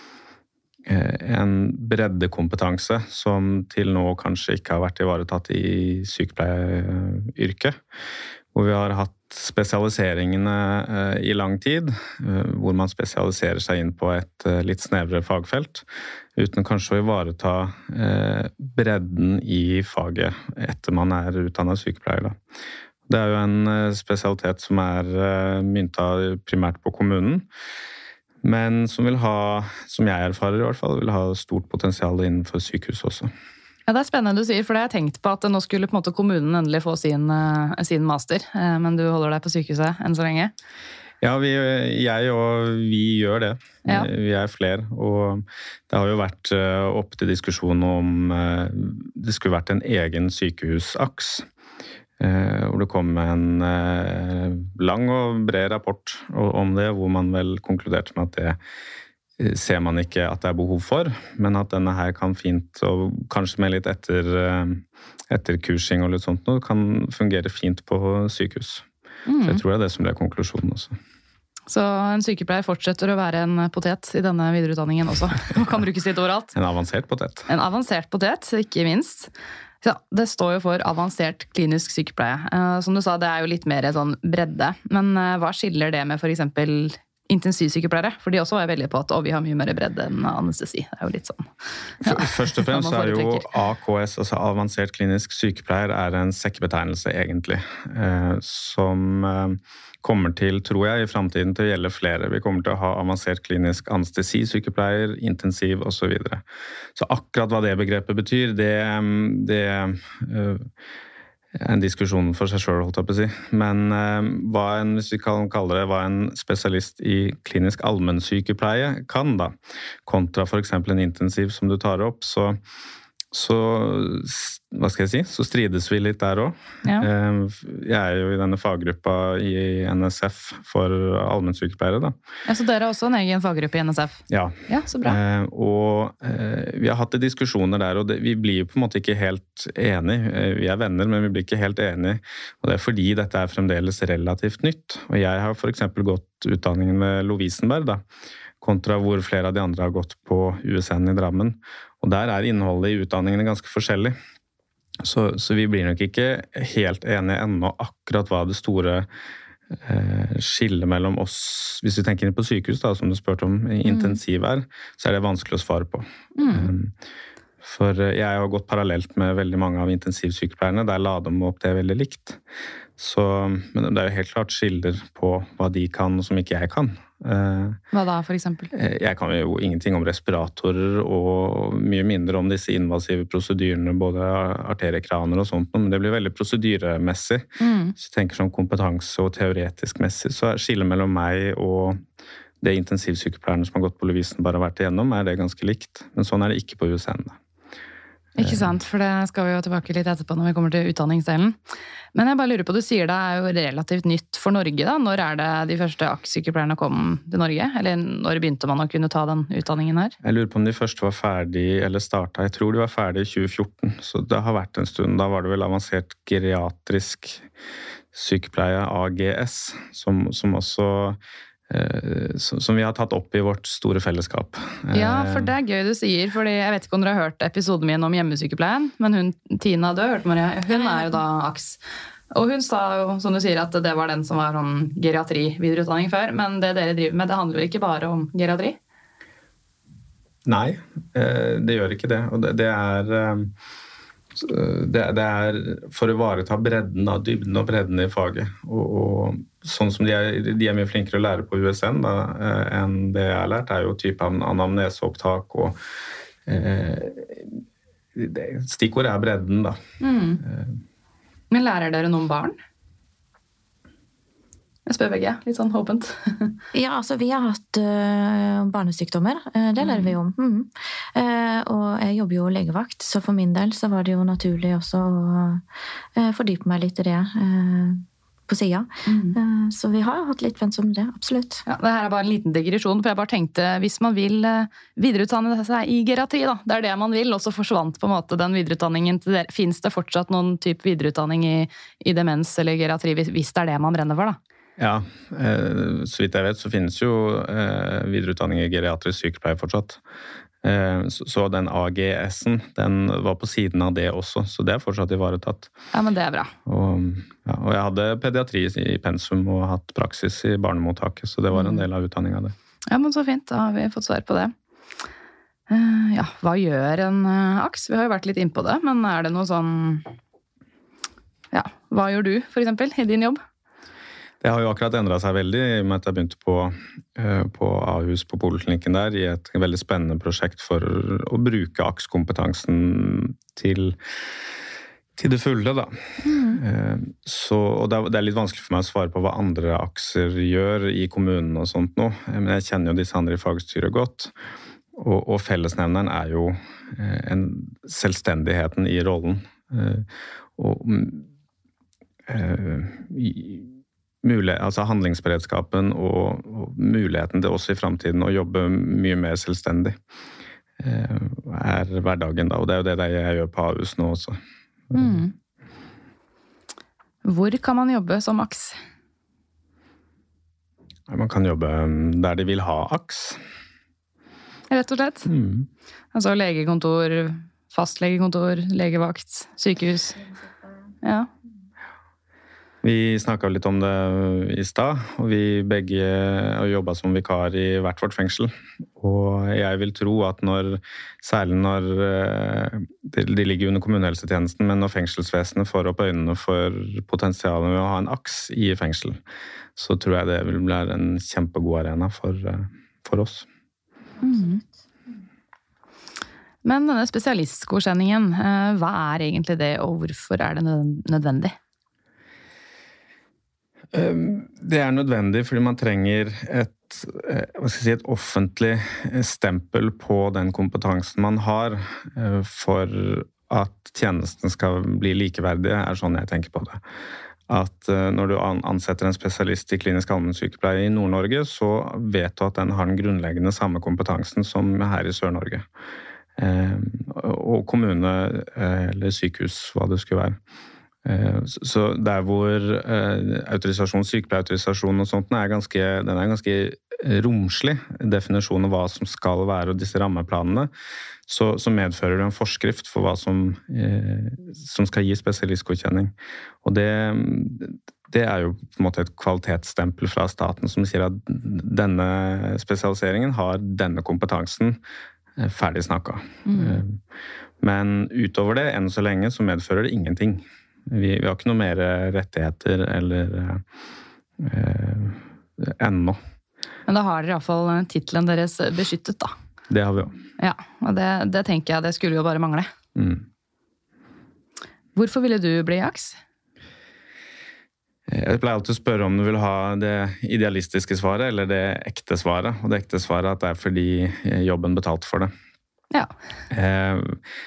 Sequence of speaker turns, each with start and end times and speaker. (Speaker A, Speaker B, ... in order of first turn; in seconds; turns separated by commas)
Speaker A: 0.9-7.8, Speaker A: 8.5-15.8, Speaker A: 16.4-22.4, Speaker A: 23.1-27.5, Speaker A: 28.4-33.3, Speaker B: 33.9-40.5, Speaker A: 41.2-51.5, Speaker A: 52.2-58.6, Speaker A: 59.4-68.8, Speaker B: 69.3-69.6, Speaker A: 69.4-71.0, Speaker B: 71.7-76.5, Speaker A: 76.5-77.5, Speaker B: 77.5-79.3, Speaker B: 79.8-91.5, Speaker B: 92.0-93.5, Speaker A: 92.0-106.4, Speaker A: 107.0-110.7, Speaker A: 111.6-119.5, Speaker A: 120.1-122.6, Speaker A: 123.3-132.2, Speaker B: 132.5-135.2, Speaker A: 134.3-148.0, Speaker A: 148.6-154.2, Speaker A: 155.0-159.1, Speaker A: 159.8-166.9, Speaker B: 163.8-164.2, Speaker B: 166.4-166.7, Speaker A: 167.6-172.4, Speaker A: 173.0-177.8, Speaker B: 177.9-178.7, Speaker A: 178.7-192.0, Speaker B: 187.6-187.9, Speaker A: 192.6-197.4, Speaker B: 198.4-201.6, Speaker A: 198.4-198.8, Speaker B: 202.1-210.2, Speaker A: 210.2-217.4, Speaker A: 218.1-221.2, Speaker A: 221.7-225.5, Speaker B: 224.9-231.8, Speaker C: 230.7-231.2, Speaker B: 232.3-238.8, Speaker A: 240.5-243.5, Speaker A: 244.4-255.8, Speaker A: 256.5-257.6, Speaker A: 258.2-259.8, Speaker B: 260.0-260.4, Speaker A: 260.4-260.8, Speaker B: 261.5-262.6, Speaker B: 264.9-266.6, Speaker C: 266.7-275.6, Speaker B: 269.8-270.1, Speaker C: 276.2-281.6, Speaker B: 279.1-279.4, Speaker B: 281.7-294.4, Speaker A: 294.8-300.0, Speaker A: 300.6-305.7, Speaker B: 305.9-306.5, Speaker A: 306.7-312.5, Speaker B: 311.5-311.8, Speaker B: 312.9-314.5, Speaker B: 315.7-320.1, Speaker B: 321.5-323.4, Speaker A: 324.4-334.0, Speaker A: 335.2-335.9, Speaker B: 336.3-336.6, Speaker A: 336.6-344.3, Speaker A: 345.0-350.1, Speaker A: 350.6-351.3, Speaker A: 352.3-353.7, Speaker A: 354.2-360.0, Speaker A: 360.8-364.4, Speaker A: 364.9-365.3, Speaker B: 364.9-365.3, Speaker B: 367.2-368.8, Speaker A: 371.1-373.4, Speaker B: 374.7-375.3, Speaker A: 375.3-375.7, Speaker B: 376.1-380.2, Speaker B: 381.0-381.3, Speaker A: 382.8-399.2, Speaker A: 399.8-403.5, Speaker B: 404.2-404.6, Speaker B: 406.6-411.6, Speaker A: 413.9-426.8, Speaker A: 427.5-435.7, Speaker A: 436.4-440.4, Speaker A: 441.1-450.7, Speaker A: 451.3-456.1, Speaker A: 456.6-464.8, Speaker A: 465.4-467.0, Speaker B: 466.5-466.8, Speaker A: 467.6-473.6, Speaker A: 474.4-476.2, Speaker B: 476.9-479.3, Speaker A: 479.7-480.2, Speaker B: 480.4-482.7, Speaker A: 483.0-483.3, Speaker B: 485.0-486.2, Speaker A: 488.1-495.3, Speaker A: 496.5-497.2